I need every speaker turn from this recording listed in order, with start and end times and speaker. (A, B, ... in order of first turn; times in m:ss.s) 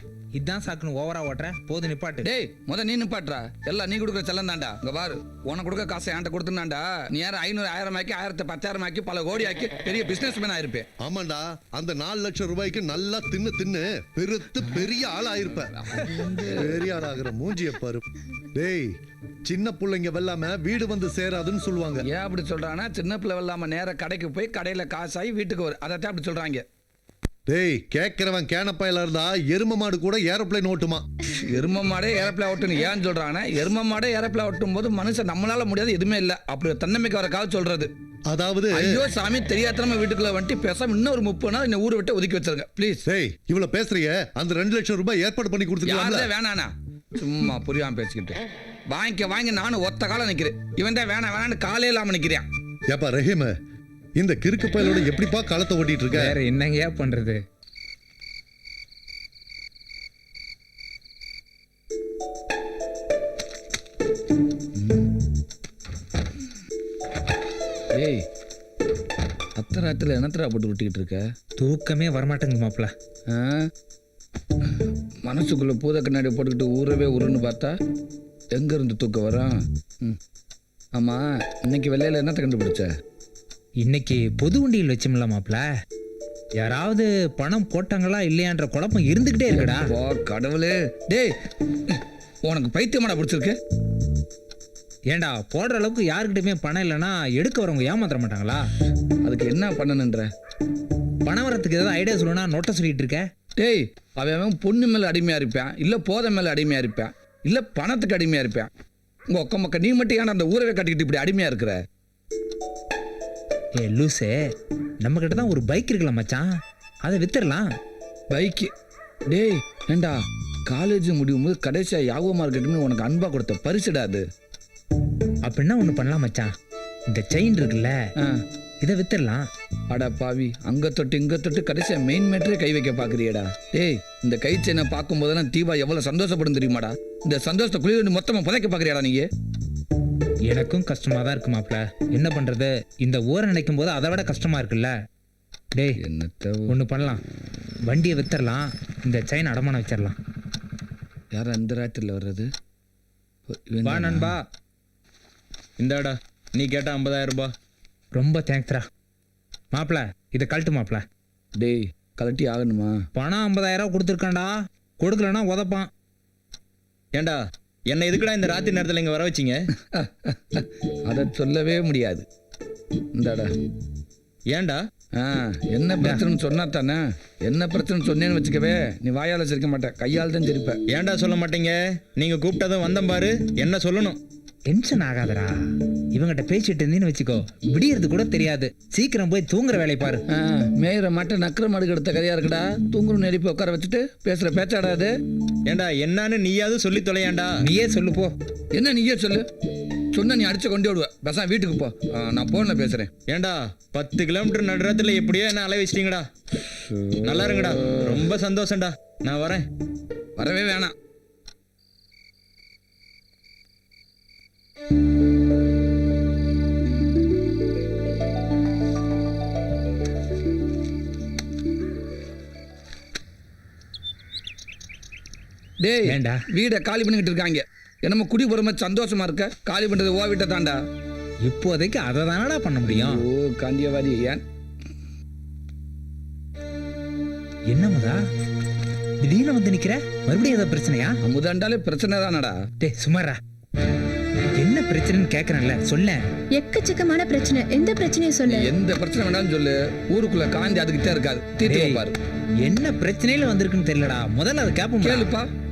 0:00.4-0:02.3 A
0:02.2-0:10.9 B
0:11.0-0:15.7 C
0:15.8-0:16.6 B
0:16.5-0:18.0 C
0:18.5-0:18.9 C
0:19.4-0:22.0 C
0:22.1-0:26.6 B
0:27.5-0:31.0 C
0:31.3-0:37.9 B
0:38.3-0:39.0 C
0:38.8-0:43.0 B
0:43.0-0:46.3 C
0:45.9-0:48.4 B
0:48.9-0:52.4 B
0:52.9-0:53.5 C
0:54.2-0:56.4 C
0:56.1-0:57.4 A
1:04.8-1:05.0 B
1:08.0-1:08.2 B
1:09.6-1:11.2 B
1:11.6-1:12.9 A
1:13.3-1:13.7 B
1:15.2-1:17.7 B
1:18.6-1:20.2 B
1:21.0-1:22.9 B
1:23.8-1:25.6 A
1:26.6-1:29.9 A
1:29.5-1:31.3 B
1:31.9-1:33.6 B
1:35.1-1:38.7 A
1:39.2-1:40.3 B
1:41.2-1:43.2 A
1:43.6-1:48.7 B
1:49.3-1:51.8 B
1:53.8-1:54.3 A
1:55.0-1:56.5 A
1:57.0-1:57.7 A
1:58.3-1:58.7 B
1:59.3-2:00.2 B
2:00.7-2:04.2 B
2:05.4-2:06.5 A
2:07.1-2:08.0 A
2:08.8-2:09.5 A
2:09.9-2:19.3 B
2:20.5-2:24.9 A
2:26.0-2:26.7 B
2:26.7-2:27.2 A
2:27.8-2:30.2 A
2:31.3-2:32.5 B
2:33.5-2:34.3 B
2:33.8-2:34.4 A
2:35.8-2:37.5 D
2:38.1-2:38.9 A
2:39.7-2:41.0 A
2:41.6-2:42.9 B
2:43.2-2:45.9 A
2:47.2-2:49.6 D
2:49.9-2:52.2 B
2:53.2-2:53.5 B
2:54.5-2:54.8 D
2:55.2-3:00.8 B
3:00.9-3:04.2 D
3:04.7-3:05.5 A
3:06.1-3:10.2 A
3:10.3-3:15.1 B
3:15.7-3:17.6 D
3:17.6-3:18.3 A
3:18.7-3:19.5 B
3:20.1-3:23.1 B
3:23.3-3:26.3 D
3:27.2-3:29.6 D
3:27.6-3:28.2 B
3:30.4-3:30.9 B
3:45.8-3:50.8 B
3:46.0-3:46.4 A
3:51.4-3:53.2 A
3:52.8-3:54.4 B
3:57.7-3:58.2 A
3:59.2-4:01.2 A
4:01.2-4:02.5 B
4:02.8-4:03.4 A
4:04.6-4:06.2 A
4:06.6-4:08.7 E
4:08.5-4:12.2 B
4:11.7-4:12.0 A
4:12.6-4:15.3 A
4:15.0-4:15.4 B